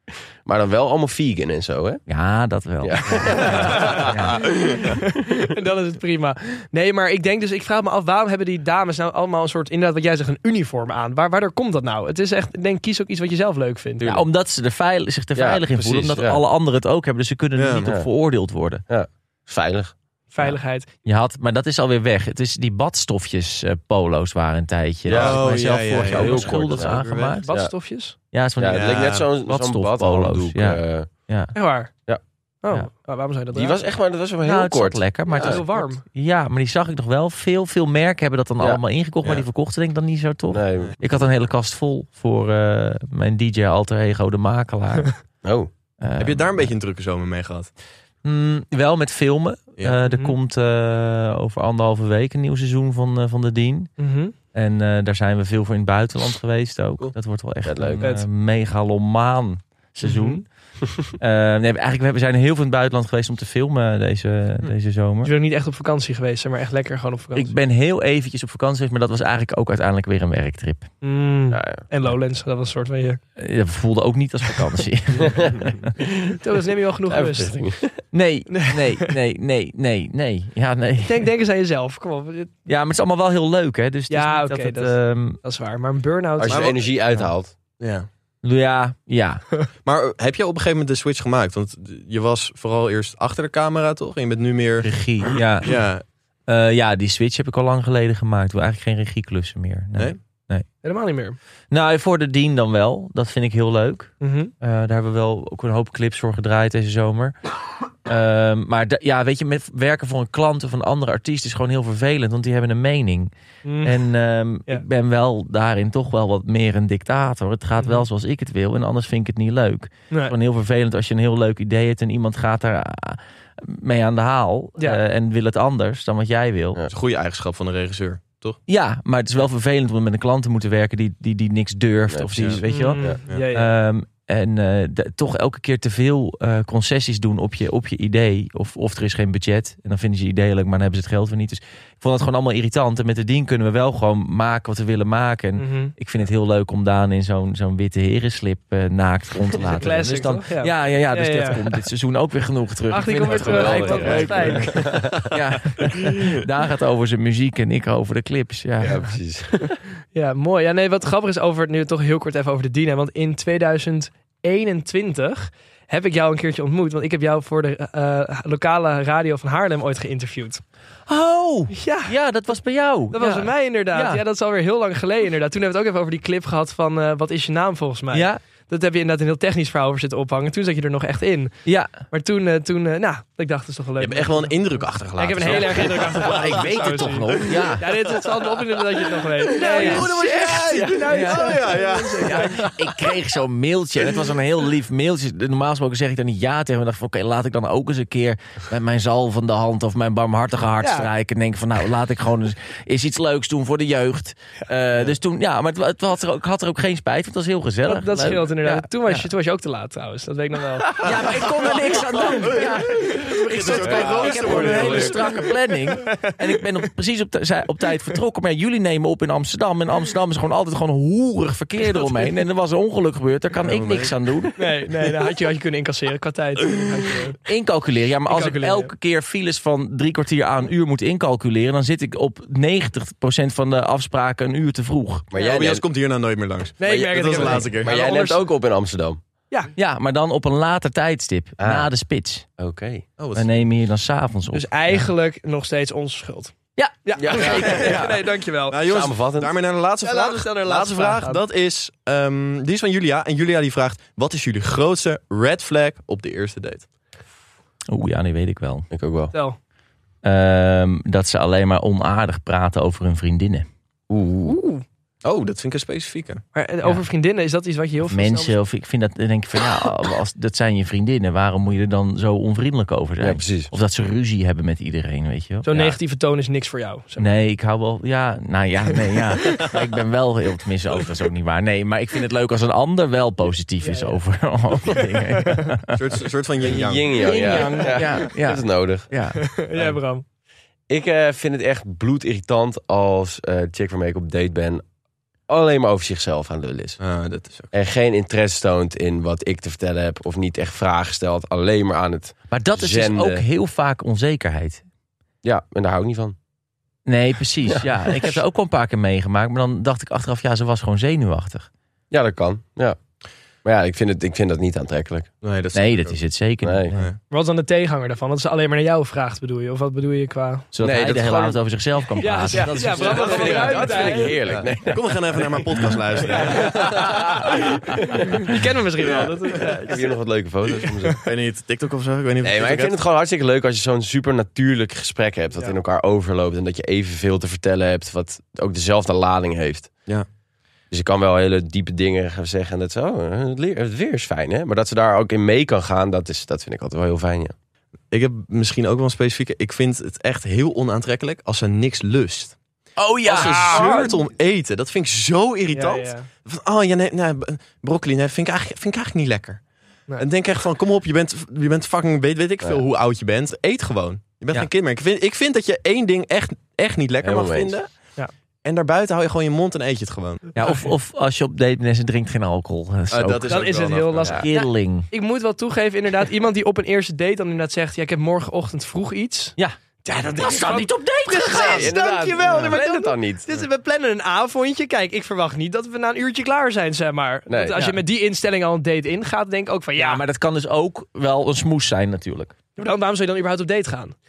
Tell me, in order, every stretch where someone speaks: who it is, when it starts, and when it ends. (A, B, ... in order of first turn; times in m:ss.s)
0:00.4-0:02.0 A
0:02.1-0:04.5 B
0:02.8-0:04.0 A
0:03.4-0:14.0 C
0:03.9-0:04.3 D
0:14.0-0:14.2 A
0:14.0-0:18.8 B
0:15.4-0:16.4 A
0:17.6-0:17.9 D
0:17.8-0:18.1 A
0:18.9-0:19.9 A
0:20.3-0:20.9 C
0:20.4-0:27.5 B
0:25.0-0:27.0 A
0:25.1-0:27.4 D
0:27.4-0:28.2 C
0:28.3-0:31.5 B
0:28.6-0:31.1 A
0:28.7-0:29.3 D
0:31.5-0:31.9 C
0:32.6-0:33.8 C
0:33.5-0:35.6 A
0:34.4-0:45.2 B
0:35.3-0:36.0 C
0:38.6-0:39.4 A
0:40.5-0:41.0 A
0:45.4-0:45.7 A
0:46.0-0:46.7 B
0:46.2-0:47.7 D
0:48.2-0:54.0 B
0:50.1-0:50.4 C
0:54.0-0:54.3 C
0:54.5-1:00.5 B
0:57.6-0:58.0 A
1:00.0-1:00.4 C
1:01.2-1:05.3 B
1:05.2-1:07.5 C
1:07.4-1:10.9 B
1:11.0-1:13.2 C
1:11.5-1:11.8 A
1:13.4-1:15.9 B
1:15.2-1:16.4 A
1:16.4-1:17.7 C
1:17.1-1:18.0 A
1:18.1-1:21.3 B
1:18.5-1:19.1 C
1:21.0-1:22.5 C
1:22.7-1:25.4 B
1:24.1-1:26.7 C
1:26.4-1:27.5 A
1:26.5-1:26.9 D
1:27.8-1:28.1 D
1:28.4-1:29.4 B
1:29.8-1:34.9 D
1:34.8-1:35.8 B
1:35.6-1:36.0 D
1:36.5-1:40.6 B
1:40.8-1:41.4 C
1:41.7-1:47.4 B
1:44.2-1:44.5 C
1:48.0-1:53.3 B
1:53.6-1:54.0 C
1:53.8-2:06.8 B
1:57.8-1:58.0 C
2:06.9-2:08.6 D
2:08.7-2:39.2 B
2:12.1-2:13.2 A
2:12.4-2:12.6 D
2:12.7-2:13.7 C
2:25.6-2:25.9 C
2:29.7-2:31.6 C
2:32.9-2:34.8 C
2:33.3-2:35.3 A
2:38.8-2:39.8 A
2:40.1-2:50.6 C
2:51.1-2:54.2 B
2:51.7-2:52.1 C
2:53.1-3:04.6 C
2:58.1-2:58.4 B
3:01.6-3:02.0 B
3:04.0-3:07.8 D
3:05.2-3:12.6 C
3:05.4-3:07.9 B
3:09.5-3:12.8 D
3:09.7-3:10.2 B
3:10.7-3:29.3 B
3:20.8-3:21.1 C
3:27.9-3:31.4 C
3:31.0-3:44.7 B
3:32.2-3:35.4 D
3:33.8-3:35.1 A
3:34.5-3:35.1 C
3:41.9-3:42.2 C
3:43.6-3:44.1 D
3:44.6-3:47.4 C
3:47.5-3:55.3 B
3:48.3-3:48.9 C
3:55.3-3:55.8 A
3:55.3-3:57.9 D
3:56.8-3:58.4 C
3:56.8-3:59.2 A
3:59.8-4:02.5 B
4:01.6-4:01.9 A
4:02.6-4:03.0 A
4:03.2-4:03.5 D
4:03.4-4:05.0 B
4:04.5-4:08.8 C
4:06.8-4:08.2 B
4:07.2-4:08.0 A
4:08.7-4:16.9 D
4:08.9-4:09.5 A
4:10.0-4:11.4 C
4:17.9-4:18.9 B
4:18.9-4:19.3 A
4:20.2-4:23.7 B
4:24.1-4:24.6 A
4:24.5-4:24.8 C
4:25.2-4:26.4 D
4:26.5-4:28.6 C
4:28.1-4:35.9 B
4:33.2-4:33.7 A
4:35.6-4:37.3 C
4:37.2-4:46.0 B
4:43.8-4:44.2 C
4:44.9-4:45.6 C
4:45.9-4:47.4 D
4:46.6-4:49.1 A
4:47.2-4:49.4 B
4:47.4-4:47.9 C
4:49.4-4:50.2 C
4:50.9-4:54.8 A
4:55.5-4:57.0 A
4:57.0-4:57.7 D
4:57.7-5:03.4 A
5:02.5-5:04.8 B
5:05.4-5:06.4 A
5:07.1-5:11.7 B
5:07.8-5:08.4 A
5:12.1-5:13.0 A
5:13.6-5:15.3 A
5:15.4-5:16.2 D
5:15.7-5:17.1 B
5:16.6-5:16.9 A
5:17.3-5:20.7 C
5:20.7-5:24.1 B
5:20.8-5:21.6 A
5:22.2-5:24.4 C
5:22.5-5:25.0 A
5:24.5-5:27.3 D
5:26.4-5:30.2 C
5:26.6-5:27.4 A
5:29.9-5:31.2 A
5:31.2-5:33.0 D
5:32.4-5:39.9 A
5:40.9-5:47.5 A
5:48.1-5:52.6 D
5:53.0-5:54.1 B
5:53.2-5:59.6 D
5:53.3-5:54.1 C
5:55.7-5:56.3 C
6:00.2-6:07.9 D
6:07.2-6:07.7 A
6:08.6-6:10.4 D
6:10.6-6:13.7 B
6:10.6-6:10.9 C
6:13.1-6:14.4 D
6:13.5-6:30.2 C
6:14.4-6:15.1 B
6:20.4-6:21.9 B
6:21.5-6:23.4 A
6:27.5-6:27.9 A
6:30.0-6:32.5 B
6:32.8-6:34.2 C